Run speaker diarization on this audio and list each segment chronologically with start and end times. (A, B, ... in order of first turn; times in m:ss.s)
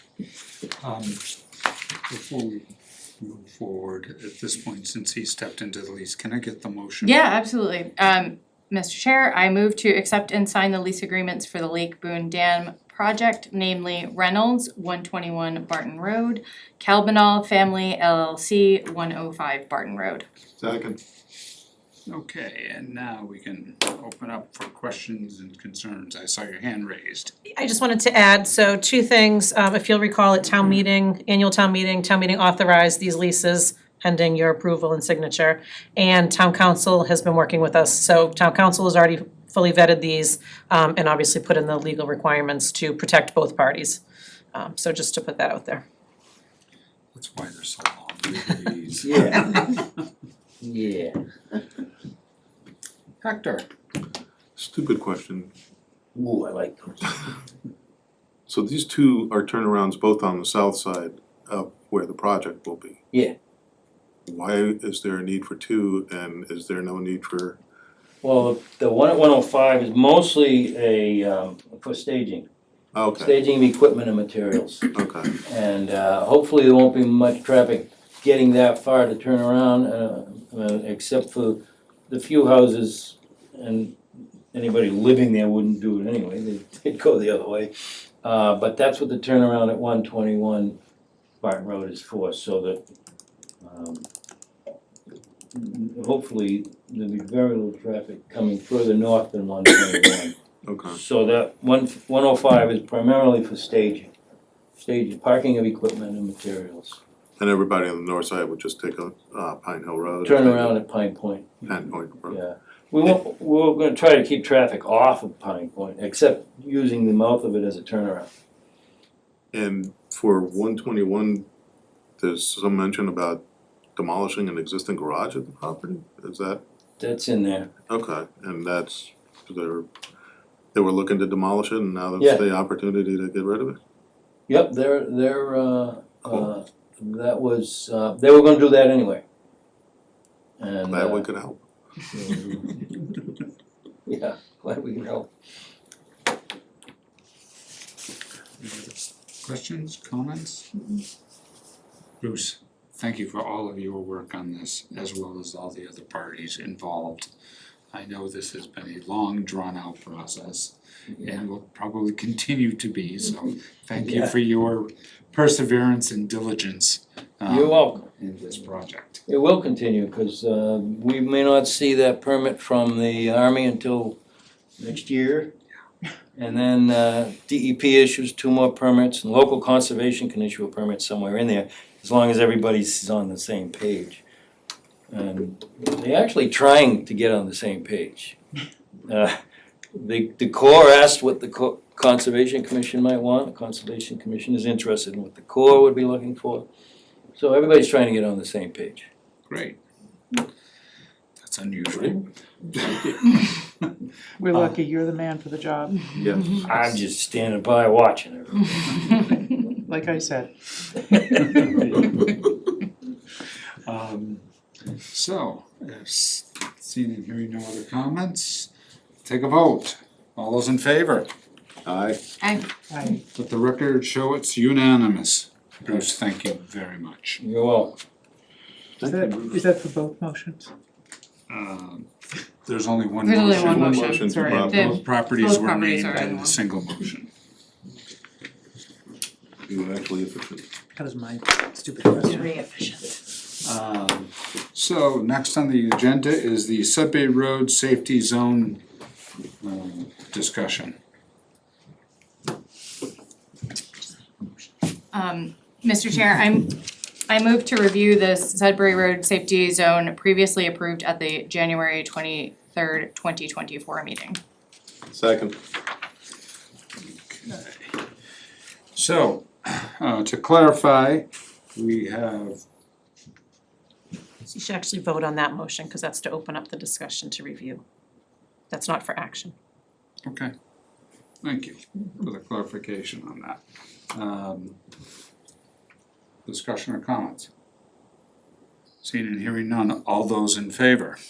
0:00.8-0:01.2 A
0:02.1-0:02.6 A
0:03.2-0:07.2 A
0:07.0-0:20.2 B
0:20.6-0:21.0 C
0:22.1-0:27.4 A
0:27.5-0:44.0 D
0:44.5-0:45.8 D
0:47.1-0:49.8 A
0:49.0-0:49.6 E
0:50.6-0:51.2 E
0:53.2-0:53.7 A
0:54.6-0:55.5 C
0:56.1-0:57.2 E
0:58.5-1:03.0 C
1:04.2-1:07.6 C
1:08.2-1:12.5 E
1:12.9-1:13.3 C
1:13.2-1:30.8 E
1:14.9-1:15.3 C
1:31.4-1:32.8 E
1:33.6-1:34.1 E
1:35.5-1:40.3 E
1:40.6-1:41.0 C
1:40.9-1:44.1 E
1:44.8-1:47.0 E
1:47.4-1:50.8 C
1:50.2-1:51.6 E
1:51.6-1:52.4 C
1:52.3-1:58.3 E
1:59.5-2:01.4 C
2:02.2-2:03.4 C
2:04.0-2:06.6 C
2:07.0-2:07.7 E
2:07.9-2:09.9 C
2:10.7-2:13.8 C
2:14.5-2:19.2 E
2:20.6-2:21.3 E
2:20.9-2:21.6 C
2:22.1-2:22.8 E
2:24.0-2:25.3 E
2:28.6-2:30.9 A
2:32.2-2:37.3 A
2:37.9-2:49.2 A
2:44.0-2:44.3 E
2:47.5-2:48.1 E
2:49.2-2:54.2 E
2:54.8-2:55.5 E
2:56.3-3:04.2 E
3:05.1-3:08.4 E
3:09.1-3:09.4 E
3:09.9-3:16.7 E
3:17.4-3:19.1 E
3:19.5-3:19.8 A
3:21.4-3:24.8 A
3:24.4-3:25.9 F
3:26.2-3:26.6 C
3:26.5-3:29.3 E
3:29.9-3:30.5 F
3:31.4-3:32.5 A
3:33.8-3:34.4 A
3:35.1-3:38.7 A
3:39.2-3:41.3 A
3:41.8-3:42.2 C
3:42.4-3:42.7 B
3:43.3-3:47.4 A
3:47.4-3:48.0 E
3:49.0-3:49.6 C
3:49.1-3:50.7 F
3:51.5-3:52.1 A
3:52.6-3:57.3 A
3:53.2-3:56.5 B
3:53.5-3:54.9 C
3:59.7-4:00.6 C
4:01.0-4:02.2 F
4:03.6-4:08.8 A
4:09.6-4:11.0 A
4:15.1-4:24.4 B
4:25.1-4:25.6 C
4:27.3-4:28.0 A
4:28.9-4:32.6 A
4:34.5-4:37.8 D
4:38.7-4:39.5 D
4:40.2-4:40.5 A
4:41.4-4:44.8 A
4:46.4-4:47.5 A
4:49.0-4:51.2 A